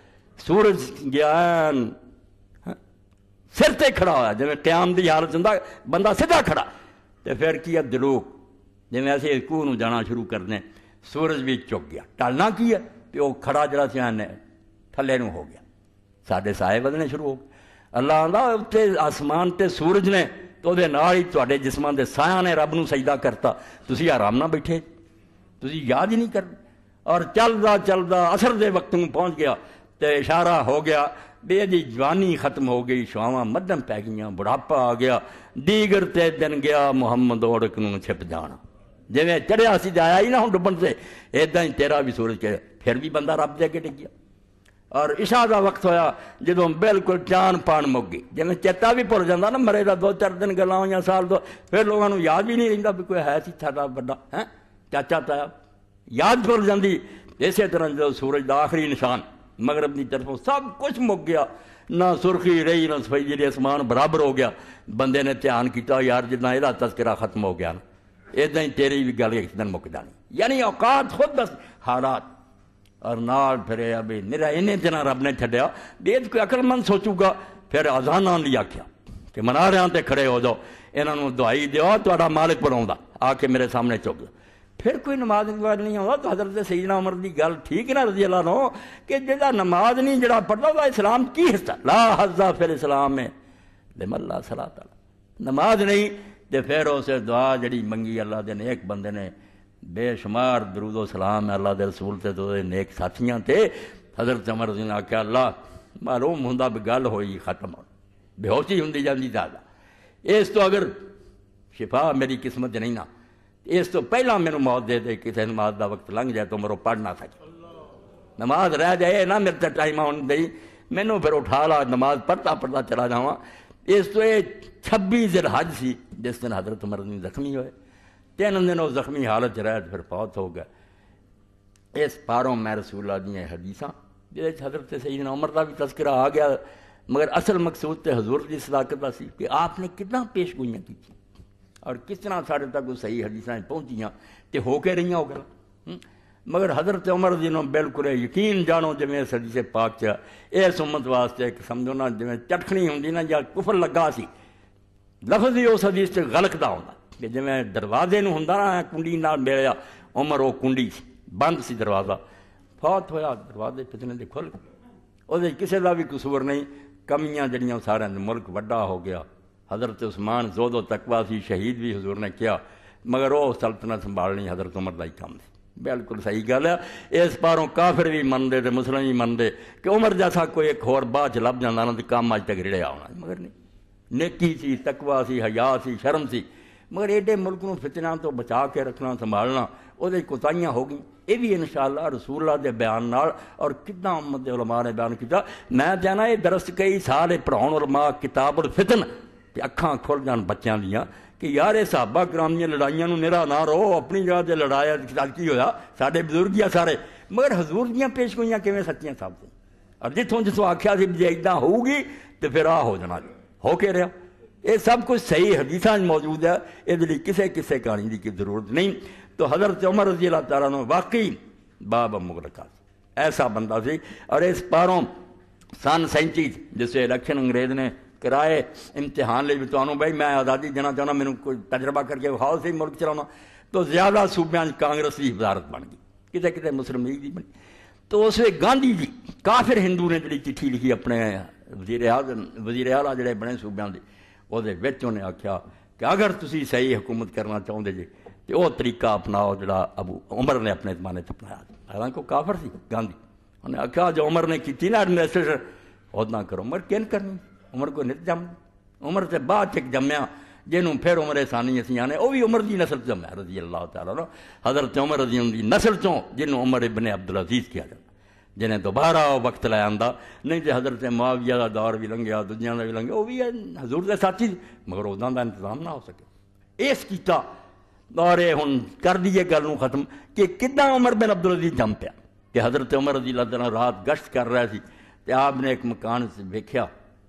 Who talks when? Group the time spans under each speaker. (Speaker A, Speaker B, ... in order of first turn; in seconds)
Speaker A: 0.4-1.9, 3.5-6.7, 7.2-8.3, 8.9-14.4, 14.9-15.6, 16.2-24.8, 25.6-26.5, 27.1-38.6, 39.1-44.1, 44.9-55.5, 56.1-67.8, 68.3-72.3, 73.0-93.3, 94.0-99.3, 99.8-107.9, 108.4-109.6, 110.2-111.0, 111.7-113.1, 113.7-117.4, 118.4-127.7, 128.4-130.7, 131.9-141.2, 141.8-154.3, 155.2-162.2, 162.8-164.6, 165.3-183.5, 184.1-214.1, 214.6-225.1, 225.8-237.5, 238.1-268.0, 268.6-276.3, 276.8-277.4, 278.1-286.9